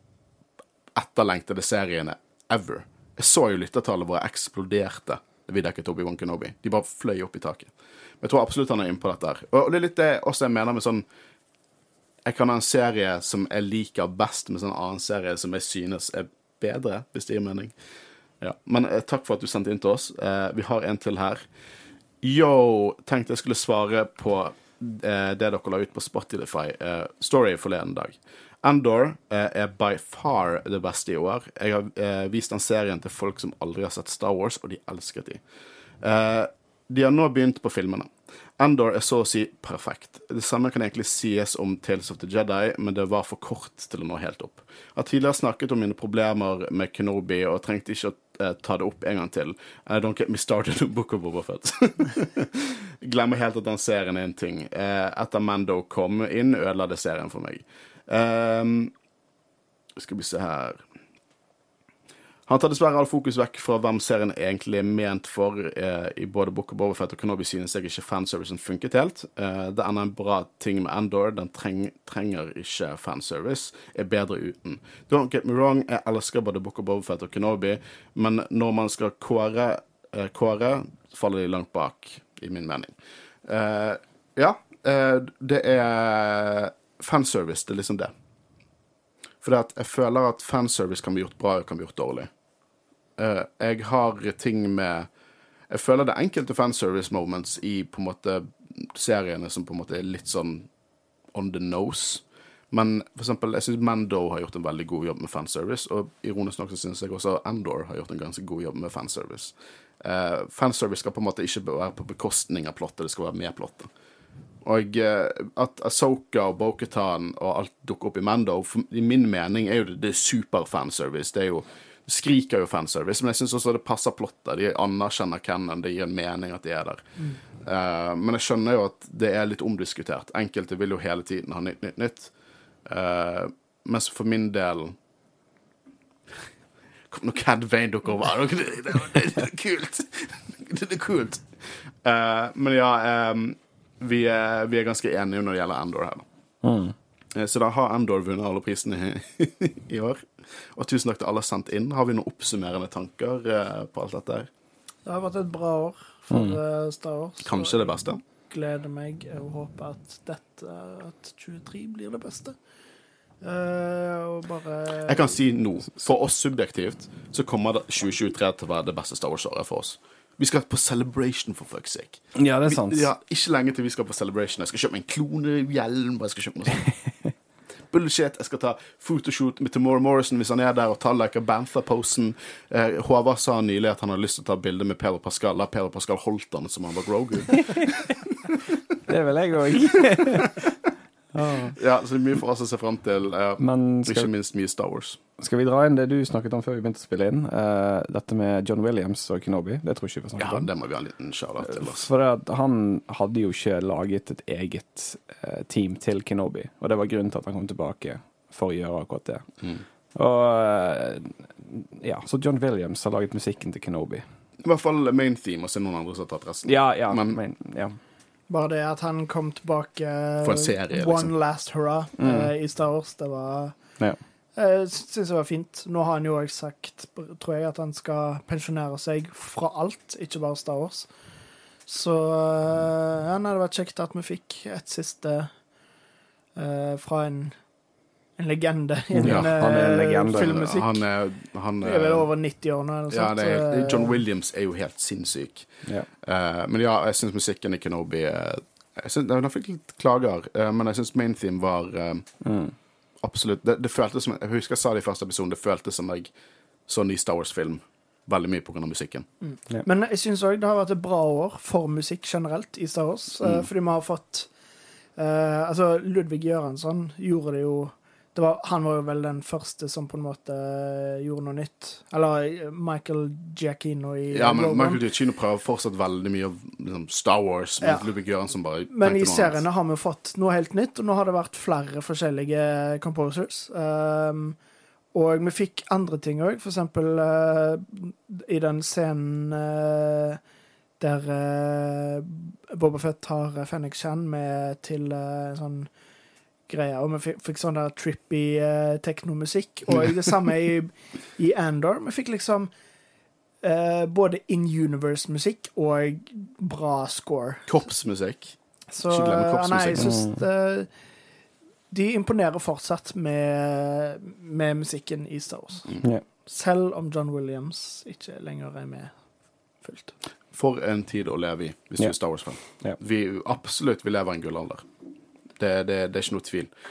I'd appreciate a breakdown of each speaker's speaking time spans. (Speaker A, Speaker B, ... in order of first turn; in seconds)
Speaker A: 0.9-11.0, 12.2-17.7, 18.4-21.4, 22.2-35.4, 36.0-58.9, 60.0-60.8, 62.5-88.1, 89.4-92.3, 93.2-95.1, 95.7-100.7, 101.3-113.9, 114.6-132.3, 132.8-134.9, 137.1-141.4, 142.0-146.2, 147.3-154.5, 157.4-158.2, 165.0-176.9, 177.9-188.6, 191.7-195.2, 200.4-202.1, 214.6-217.4, 220.4-221.3, 239.2-239.6, 240.3-242.3, 243.1-245.7, 246.2-252.3, 253.2-256.3, 256.9-259.3, 274.3-279.6, 307.6-310.1, 320.5-324.9, 325.6-326.7
Speaker B: 146.6-146.9, 156.3-156.6, 172.3-173.1, 189.1-190.8, 191.3-191.8, 193.6-194.3, 195.4-200.7, 201.6-209.4, 210.1-214.2, 216.7-218.0, 222.2-222.5, 239.1-240.6, 252.4-252.7, 309.9-310.4
Speaker C: 155.1-162.6, 163.4-165.4, 218.5-223.8, 224.6-231.1, 231.8-235.5, 236.6-237.6, 238.4-241.0, 241.8-244.2, 259.4-264.5, 265.2-275.0, 277.8-278.1, 278.9-284.6, 285.1-290.4, 291.0-295.9, 296.7-302.7, 303.6-307.6, 308.9-310.9, 311.9-319.1, 319.8-320.1